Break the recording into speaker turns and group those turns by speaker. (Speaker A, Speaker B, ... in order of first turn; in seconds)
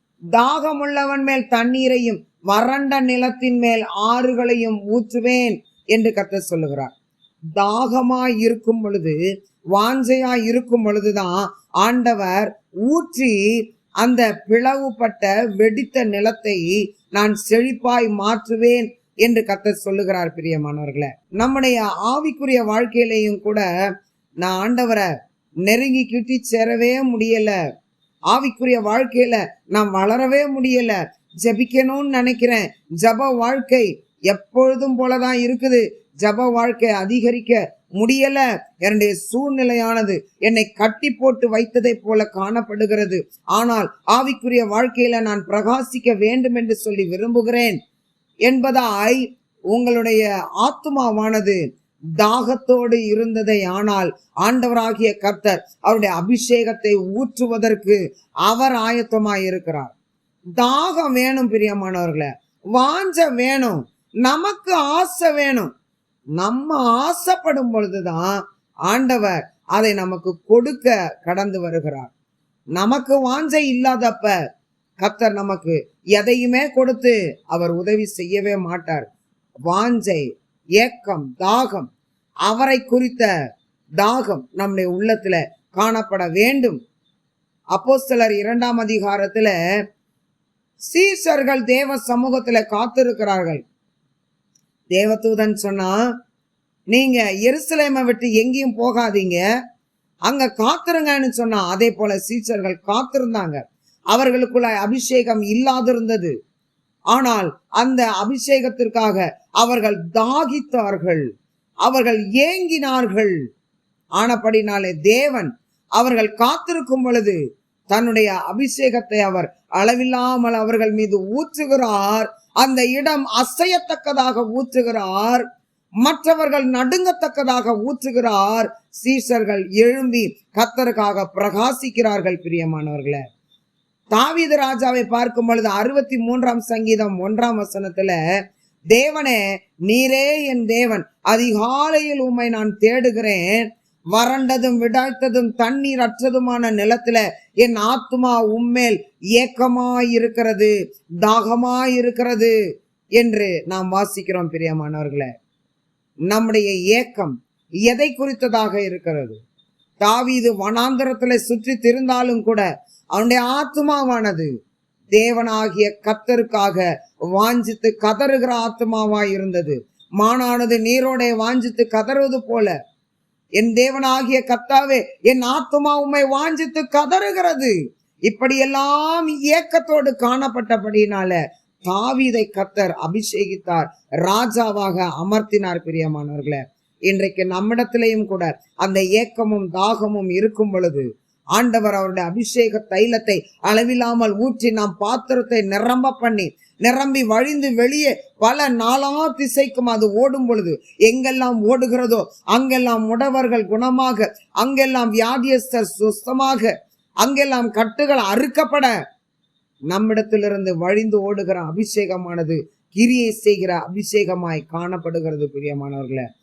Speaker A: 0.3-6.9, 7.6-9.2, 9.7-13.4, 14.0-23.6, 24.4-25.1, 25.6-27.6, 28.3-47.8, 48.5-51.6, 52.2-59.9, 60.6-65.7, 66.4-72.1, 72.8-74.3, 75.0-79.1, 79.7-81.9, 82.5-83.3, 84.0-86.8, 87.7-89.5, 90.9-93.6, 94.9-96.0, 96.9-99.4, 100.2-106.3, 107.1-111.3, 111.8-113.4, 114.2-117.4, 117.9-125.4, 126.0-133.2, 134.1-138.2, 138.9-152.5, 153.2-155.3, 156.3-159.4, 160.0-164.5, 165.1-172.7, 173.6-177.7, 178.3-208.9, 209.9-216.2